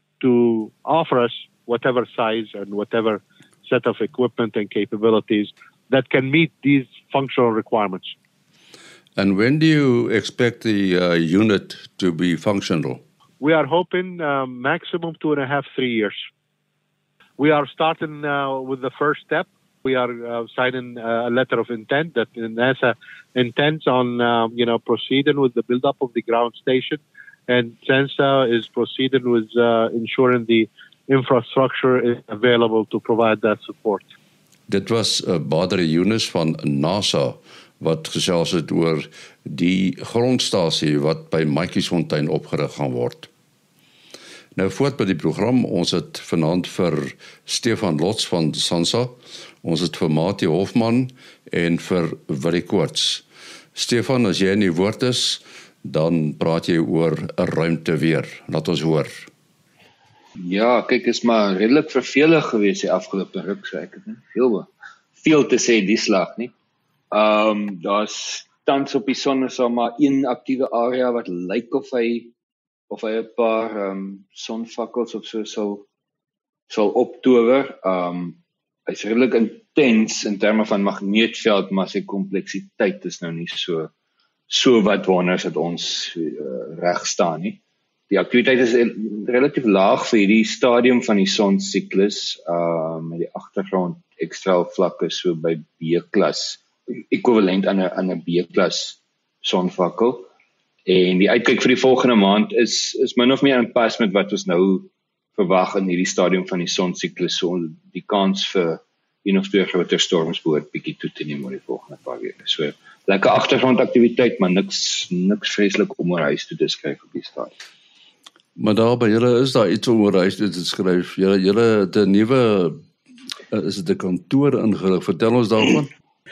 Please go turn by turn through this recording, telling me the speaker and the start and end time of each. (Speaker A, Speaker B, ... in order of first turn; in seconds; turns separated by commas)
Speaker A: 0.2-8.1, Speaker B: 9.2-13.0, Speaker A: 13.4-16.2, Speaker A: 17.4-34.1, Speaker B: 34.7-43.3, Speaker B: 44.5-59.3, Speaker C: 60.4-66.5, Speaker C: 67.1-72.3, Speaker C: 72.9-75.9, Speaker C: 76.7-83.9, Speaker C: 84.5-100.3, Speaker C: 100.9-117.6, Speaker B: 118.6-122.8, Speaker B: 123.5-125.9